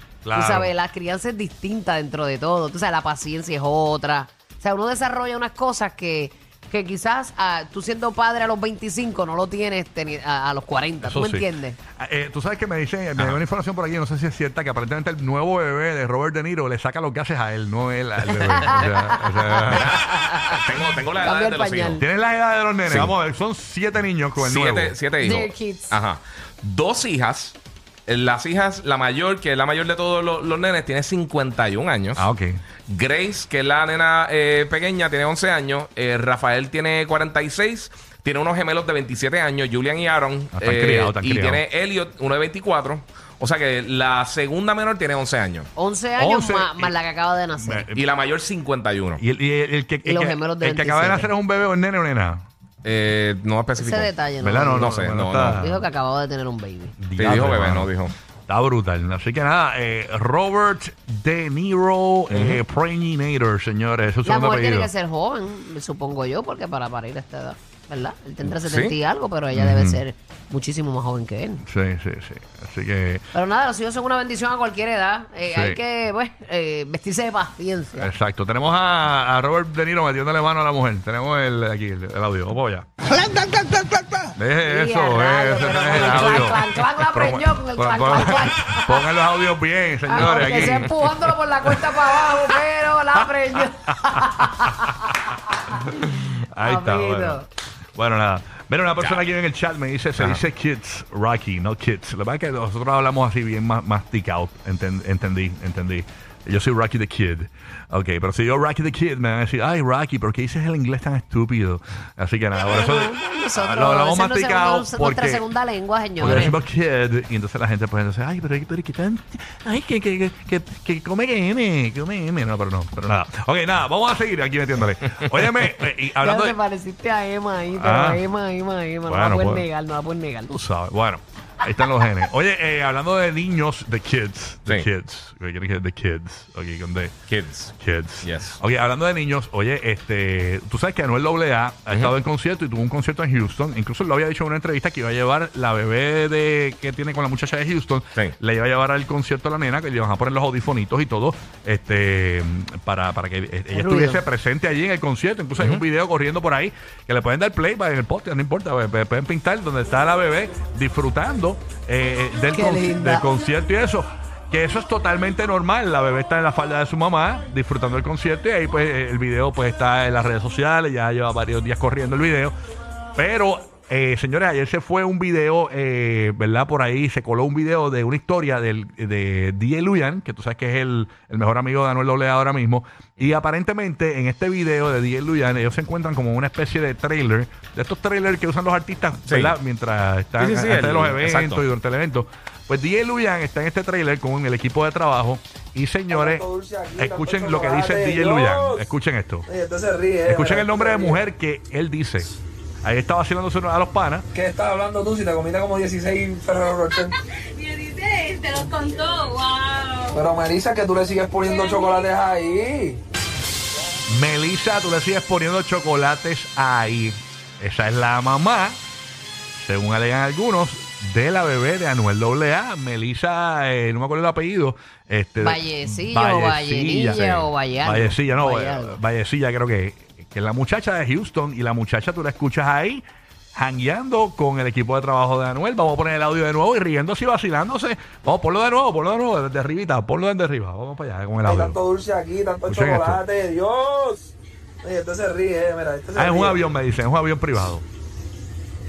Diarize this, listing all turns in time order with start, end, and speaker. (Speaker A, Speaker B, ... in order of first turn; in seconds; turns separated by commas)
Speaker A: 0.2-0.7, Speaker B: 0.3-11.8, Speaker A: 11.0-11.5, Speaker A: 12.0-19.9, Speaker B: 18.4-20.6, Speaker C: 19.7-22.0, Speaker B: 21.2-22.0, Speaker A: 21.9-24.9, Speaker C: 22.9-23.1, Speaker C: 24.4-32.3, Speaker B: 25.2-25.9, Speaker A: 32.1-32.6, Speaker C: 32.9-45.7, Speaker A: 40.5-41.6, Speaker B: 45.8-47.9, Speaker A: 46.2-46.9, Speaker A: 47.5-48.0, Speaker C: 47.9-49.2, Speaker A: 49.2-52.5, Speaker B: 50.0-51.3, Speaker C: 52.8-54.1, Speaker B: 53.8-55.0, Speaker A: 54.4-55.9, Speaker C: 54.6-55.6, Speaker B: 55.6-56.9, Speaker A: 57.0-58.0, Speaker C: 57.2-58.1, Speaker A: 58.5-64.9, Speaker C: 62.3-62.6, Speaker B: 64.2-71.6, Speaker C: 68.5-68.9, Speaker A: 69.5-70.0, Speaker A: 71.6-73.2, Speaker B: 73.3-78.1, Speaker A: 75.5-75.8, Speaker A: 78.0-82.9, Speaker A: 84.3-92.5, Speaker B: 84.6-89.1, Speaker B: 90.1-95.9, Speaker A: 93.2-97.4, Speaker B: 96.6-97.5, Speaker A: 98.0-115.4, Speaker C: 99.0-99.2, Speaker C: 100.2-100.4, Speaker B: 112.5-116.6, Speaker A: 116.2-126.5, Speaker B: 126.2-130.5, Speaker A: 127.8-128.2, Speaker A: 129.0-129.7, Speaker A: 130.5-137.1, Speaker C: 137.3-138.6, Speaker A: 137.8-172.5, Speaker B: 153.7-154.2, Speaker C: 155.6-155.8, Speaker B: 162.5-163.2, Speaker A: 173.2-199.5, Speaker C: 189.3-189.5, Speaker C: 190.4-191.6, Speaker D: 196.1-198.9, Speaker D: 199.5-201.2, Speaker A: 200.2-202.3, Speaker A: 202.8-204.3, Speaker D: 204.3-207.1, Speaker E: 207.5-210.2, Speaker D: 210.1-213.0, Speaker A: 214.1-218.8, Speaker A: 219.6-233.0, Speaker B: 225.4-229.0, Speaker A: 233.5-241.8, Speaker D: 241.4-246.6, Speaker A: 242.7-243.2, Speaker A: 246.1-247.8